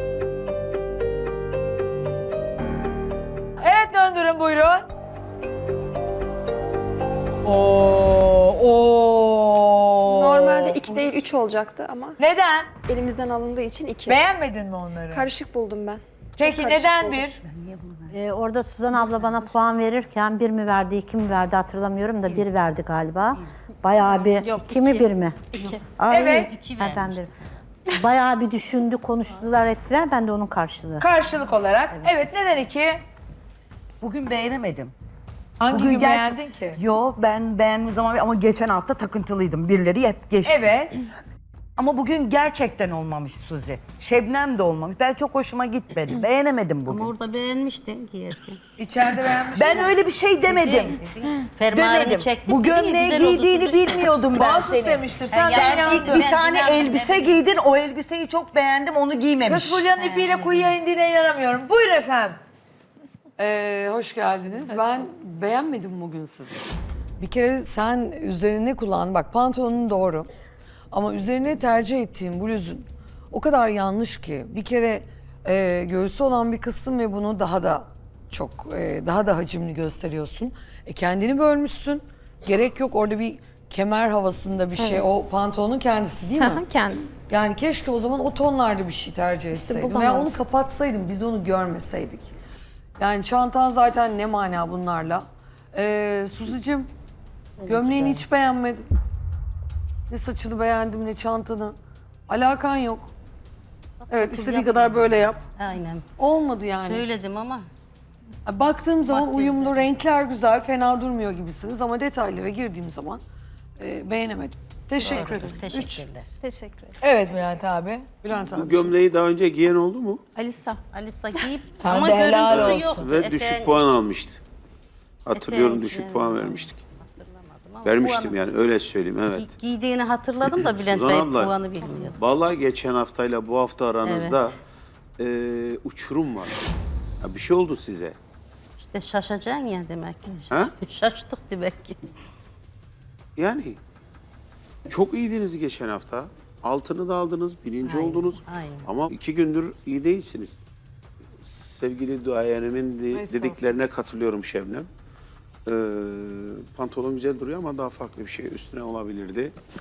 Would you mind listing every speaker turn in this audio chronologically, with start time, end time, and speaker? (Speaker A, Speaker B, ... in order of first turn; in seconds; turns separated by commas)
Speaker A: 3.6-4.8, Speaker A: 7.5-10.9, Speaker B: 10.2-12.2, Speaker A: 12.2-12.7, Speaker B: 12.9-14.2, Speaker A: 14.1-15.3, Speaker B: 15.1-17.2, Speaker A: 16.4-17.4, Speaker C: 17.4-18.1, Speaker D: 18.1-25.4, Speaker C: 24.4-27.3, Speaker D: 26.0-27.3, Speaker A: 26.1-26.5, Speaker D: 27.9-31.1, Speaker A: 31.0-33.0, Speaker E: 34.0-34.9, Speaker A: 35.6-36.8, Speaker E: 35.7-40.6, Speaker A: 40.5-41.0, Speaker E: 41.8-47.1, Speaker C: 46.9-48.6, Speaker A: 48.8-49.9, Speaker E: 49.5-51.0, Speaker C: 50.4-54.1, Speaker E: 51.7-59.9, Speaker A: 54.4-56.3, Speaker C: 55.3-57.4, Speaker A: 59.5-62.4, Speaker C: 59.9-60.7, Speaker F: 63.4-66.6, Speaker F: 67.2-70.3, Speaker F: 70.9-86.6, Speaker G: 84.8-85.1, Speaker G: 86.4-87.1, Speaker F: 87.3-92.3, Speaker G: 89.5-90.4, Speaker F: 93.0-96.9, Speaker C: 97.6-98.3, Speaker F: 97.7-98.9, Speaker F: 100.1-101.8, Speaker F: 102.3-103.1, Speaker C: 104.0-106.1, Speaker F: 104.1-105.4, Speaker F: 106.2-107.0, Speaker C: 106.7-107.7, Speaker F: 108.5-113.2, Speaker C: 109.0-110.0, Speaker F: 113.8-116.0, Speaker C: 115.0-116.3, Speaker G: 116.4-117.0, Speaker A: 117.0-118.1, Speaker F: 118.2-119.0, Speaker H: 118.5-120.2, Speaker G: 120.4-120.8, Speaker C: 120.9-123.8, Speaker A: 121.8-123.0, Speaker H: 122.5-124.4, Speaker H: 125.3-126.8, Speaker C: 125.3-128.4, Speaker H: 127.8-129.6, Speaker C: 129.3-132.2, Speaker H: 130.4-134.5, Speaker C: 134.1-134.5, Speaker H: 135.2-136.6, Speaker H: 137.2-138.2, Speaker C: 138.8-142.0, Speaker H: 143.4-143.8, Speaker H: 144.9-150.6, Speaker C: 147.8-148.9, Speaker H: 151.4-154.9, Speaker H: 155.7-159.6